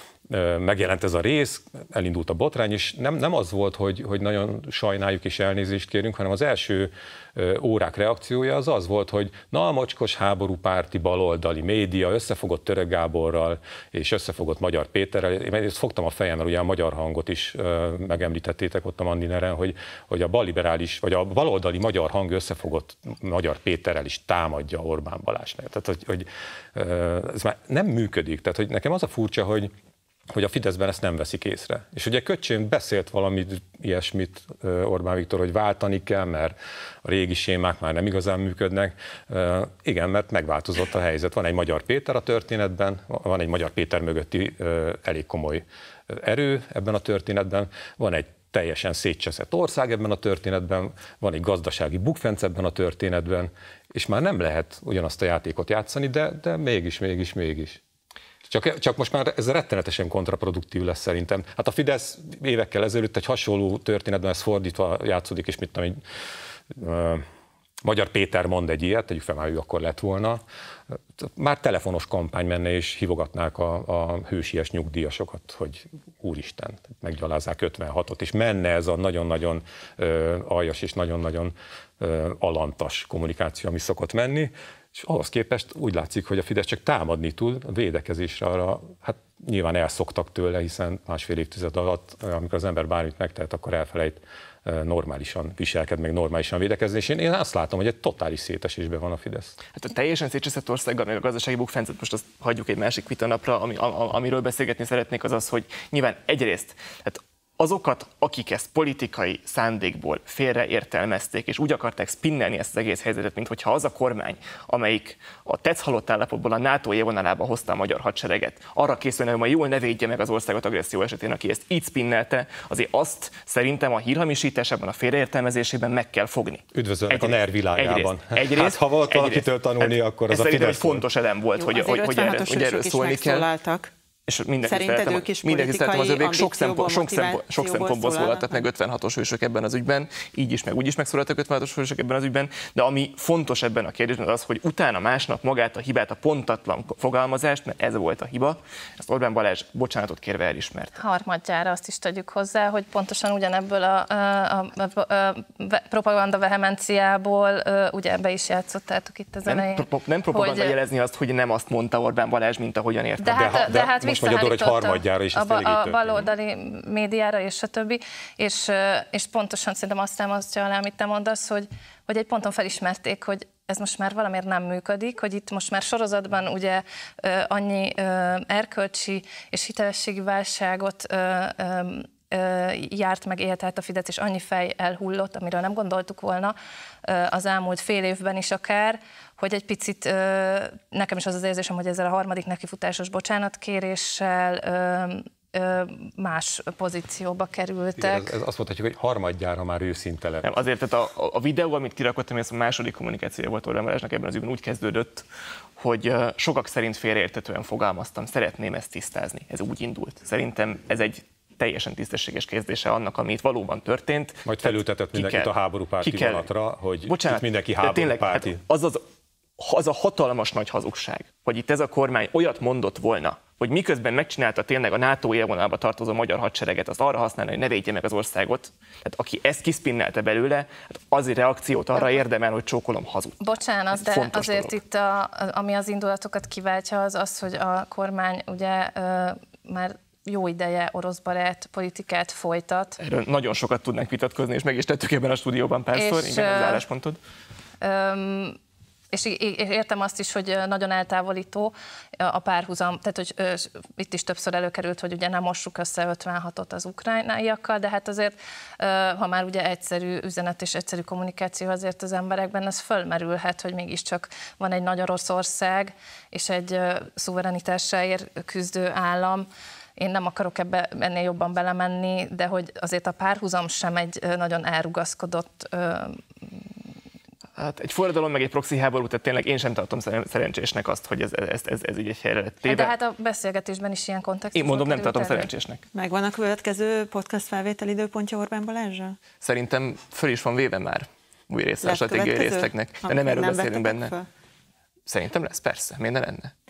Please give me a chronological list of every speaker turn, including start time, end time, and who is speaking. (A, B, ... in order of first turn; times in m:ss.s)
0:00.3-0:29.7 A
0:30.3-0:57.8 A
0:58.5-1:06.0 A
1:06.7-1:07.2 A
1:07.8-1:10.4 A
1:11.2-1:39.6 A
1:39.8-2:13.5 B
2:06.7-2:11.0 A
2:11.6-2:13.9 C
2:14.3-2:31.0 B
2:14.6-2:18.7 C
2:31.0-2:40.8 D
2:39.5-2:43.4 B
2:43.2-3:18.3 D
2:43.3-2:46.3 A
3:18.0-3:20.5 A
3:20.4-3:25.2 B
3:25.8-3:35.5 B
3:34.5-3:38.6 A
3:36.0-3:36.5 B
3:37.1-3:39.0 B
3:39.6-3:54.7 B
3:53.4-4:03.0 D
4:03.0-4:07.2 B
4:05.9-4:06.8 D
4:07.8-4:08.6 D
4:09.1-4:29.5 D
4:30.0-4:36.2 D
4:37.6-4:42.9 B
4:42.7-4:45.5 D
4:44.6-4:45.8 B
4:45.9-4:49.2 C
4:49.4-4:54.1 B
4:51.8-4:54.3 C
4:55.1-4:56.5 B